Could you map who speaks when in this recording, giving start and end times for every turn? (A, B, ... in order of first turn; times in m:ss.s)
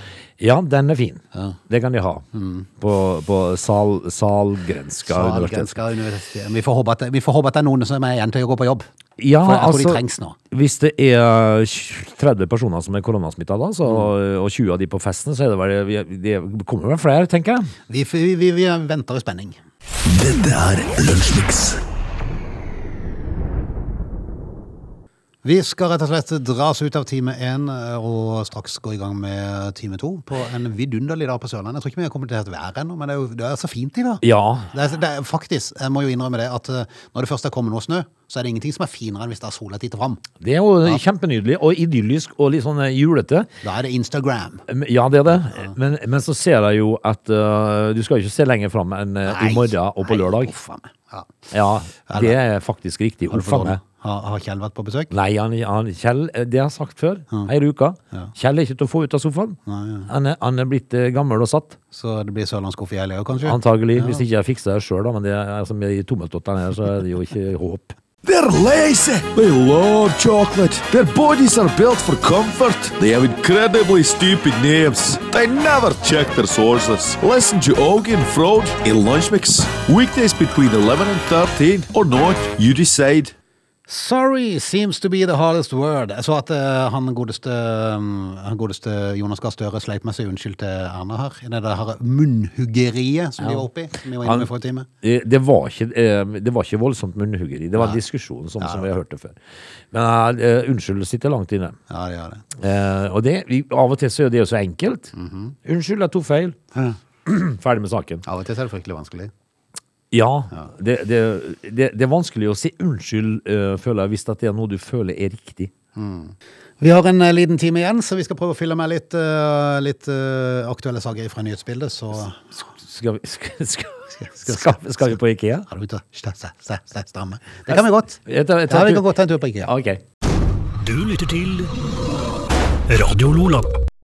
0:00.4-0:02.2 A
0:02.3-0:02.7 B
0:02.8-0:05.7 A
0:05.0-0:08.9 B
0:09.2-0:17.7 A
0:09.4-0:10.4 B
0:17.9-0:19.6 B
0:20.1-0:21.8 C
0:25.4-0:40.2 B
0:34.2-0:34.7 A
0:40.4-0:43.5 A
0:43.6-0:44.6 B
0:44.7-0:50.5 A
0:49.2-0:51.4 B
0:51.5-0:53.8 A
0:52.1-0:52.4 B
0:53.3-0:55.1 B
0:55.1-1:01.8 A
0:59.6-1:00.1 B
1:01.9-1:04.2 B
1:03.4-1:07.9 A
1:08.2-1:23.3 D
1:23.9-1:34.9 B
1:33.4-1:33.7 A
1:34.2-1:34.5 A
1:35.0-1:39.4 A
1:38.6-1:38.9 B
1:39.9-1:41.8 A
1:41.9-1:42.4 B
1:42.6-1:45.1 A
1:45.1-1:45.6 B
1:45.6-1:46.6 A
1:47.2-1:48.2 A
1:48.2-1:49.3 B
1:50.1-1:55.7 A
1:56.0-2:02.7 B
2:02.8-2:05.7 A
2:04.2-2:05.1 B
2:05.7-2:09.7 B
2:07.7-2:09.1 A
2:09.6-2:10.0 A
2:10.8-2:11.7 C
2:12.9-2:13.7 C